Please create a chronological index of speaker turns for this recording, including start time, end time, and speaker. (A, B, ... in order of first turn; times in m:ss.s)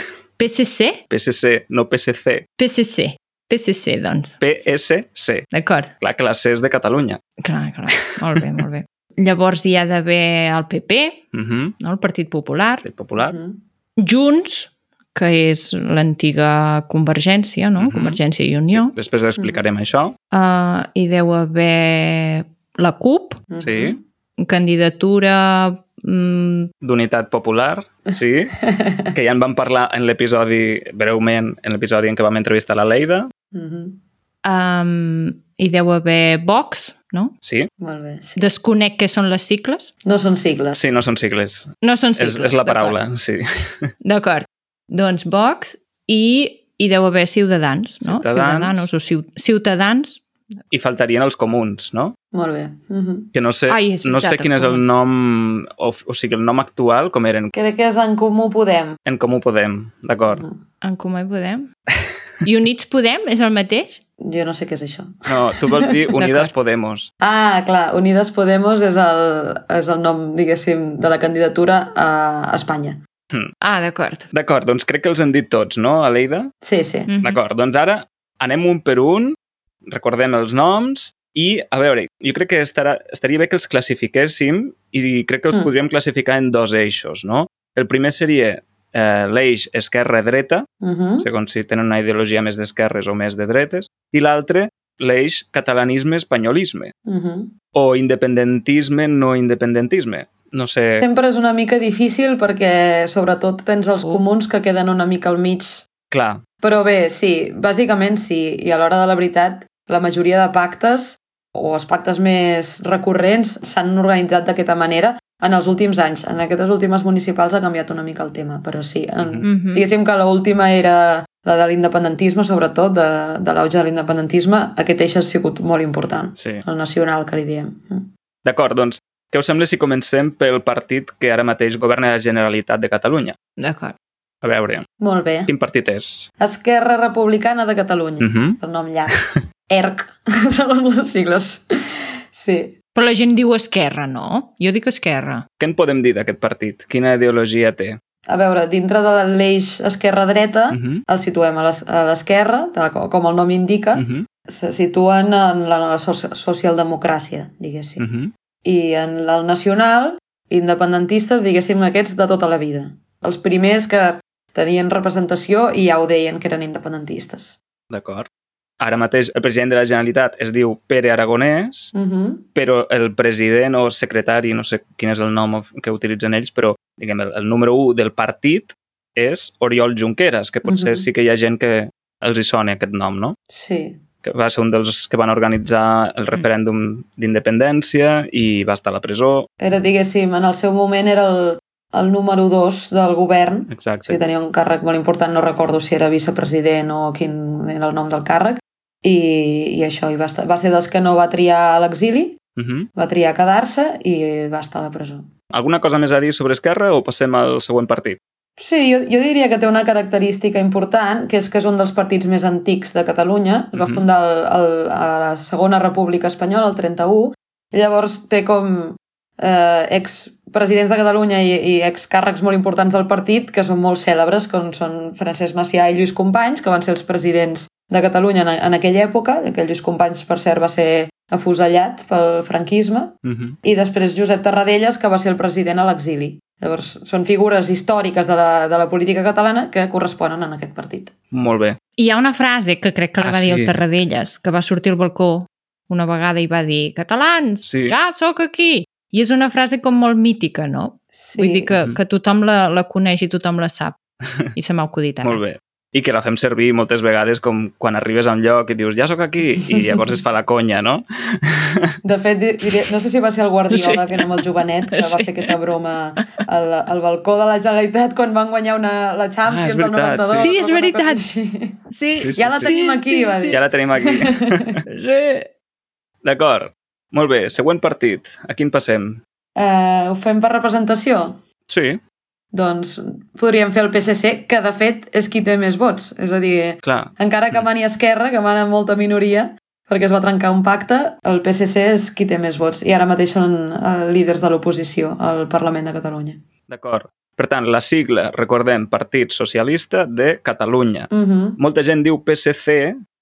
0:00.4-0:01.0 A
0:01.1-0:02.4 B
0:02.6-0:04.4 A
0:04.4-0:05.5 B
0:05.5-0:05.9 A
0:06.0-0:07.2 B
0:07.4-0:11.2 A
0:11.3-0:11.8 B
0:11.8-0:12.9 A
0:12.8-0:13.3 B
0:13.2-0:13.6 C
0:14.0-0:18.9 A
0:17.8-0:18.2 B
0:18.7-0:20.2 B
0:20.3-0:23.4 A
0:23.5-0:24.0 C
0:23.6-0:24.0 B
0:24.4-0:26.7 A
0:26.8-0:28.6 B
0:28.1-0:29.1 C
0:29.1-0:33.3 B
0:33.5-0:34.0 C
0:34.4-0:37.3 A
0:37.4-0:37.7 B
0:37.8-0:38.5 C
0:38.4-0:39.9 A
0:40.0-0:40.8 C
0:40.7-0:43.9 B
0:41.8-0:43.0 A
0:44.0-0:50.2 A
0:48.0-0:48.9 B
0:50.7-0:52.2 B
0:52.3-0:53.3 C
0:53.3-0:57.5 B
0:53.7-0:54.8 A
0:57.5-0:59.0 C
0:59.1-1:00.4 B
1:00.3-1:00.6 C
1:00.8-1:01.7 A
1:02.4-1:04.0 A
1:04.2-1:06.0 C
1:05.3-1:07.1 B
1:06.2-1:06.5 A
1:07.2-1:13.0 C
1:13.6-1:14.3 A
1:14.3-1:16.5 B
1:16.6-1:17.1 C
1:17.1-1:17.4 A
1:17.2-1:30.7 B
1:30.8-1:31.3 C
1:31.2-1:36.9 B
1:37.1-1:37.5 C
1:37.7-1:41.1 B
1:40.9-1:45.9 C
1:46.1-1:46.4 B
1:46.6-2:08.1 C
1:59.4-1:59.8 A
2:06.4-2:06.6 B
2:08.4-2:13.4 B
2:13.6-2:14.0 A
2:14.4-2:14.9 B
2:15.0-2:15.5 C
2:15.5-2:16.3 B
2:16.4-2:22.8 C
2:18.2-2:18.6 B
2:23.0-2:25.4 A
2:25.6-2:28.0 B
2:28.3-2:38.0 C
2:30.7-2:31.0 B
2:34.0-2:34.3 B
2:38.0-2:38.3 B
2:38.6-2:47.6 C
2:47.9-2:48.3 B
2:48.8-2:51.9 B
2:51.9-2:52.5 C
2:52.6-3:03.4 B
3:00.6-3:01.1 C
3:03.5-3:04.0 C
3:04.2-3:09.5 B
3:09.6-3:22.4 C
3:13.7-3:14.2 B
3:22.6-3:22.9 B
3:23.0-3:25.3 C
3:25.5-3:28.2 B
3:28.6-4:01.1 C
3:33.8-3:34.0 B
3:53.2-3:53.6 B
4:01.3-4:01.8 B
4:02.0-4:14.0 A
4:03.2-4:03.7 B
4:07.6-4:08.0 B
4:11.2-4:11.7 C
4:14.5-4:15.4 A
4:15.2-4:21.9 B
4:22.0-4:31.8 C
4:23.7-4:24.2 A
4:24.9-4:25.5 A
4:29.5-4:30.5 B
4:30.4-4:31.2 A
4:31.9-4:33.6 A
4:32.2-4:32.7 B
4:32.4-4:34.8 C
4:33.5-4:34.6 B
4:34.9-4:35.5 A
4:36.2-4:39.2 B
4:39.6-4:41.4 C
4:41.7-4:42.0 B
4:42.5-4:56.4 C
4:46.8-4:47.6 B
4:56.7-5:03.0 B
5:01.1-5:01.6 C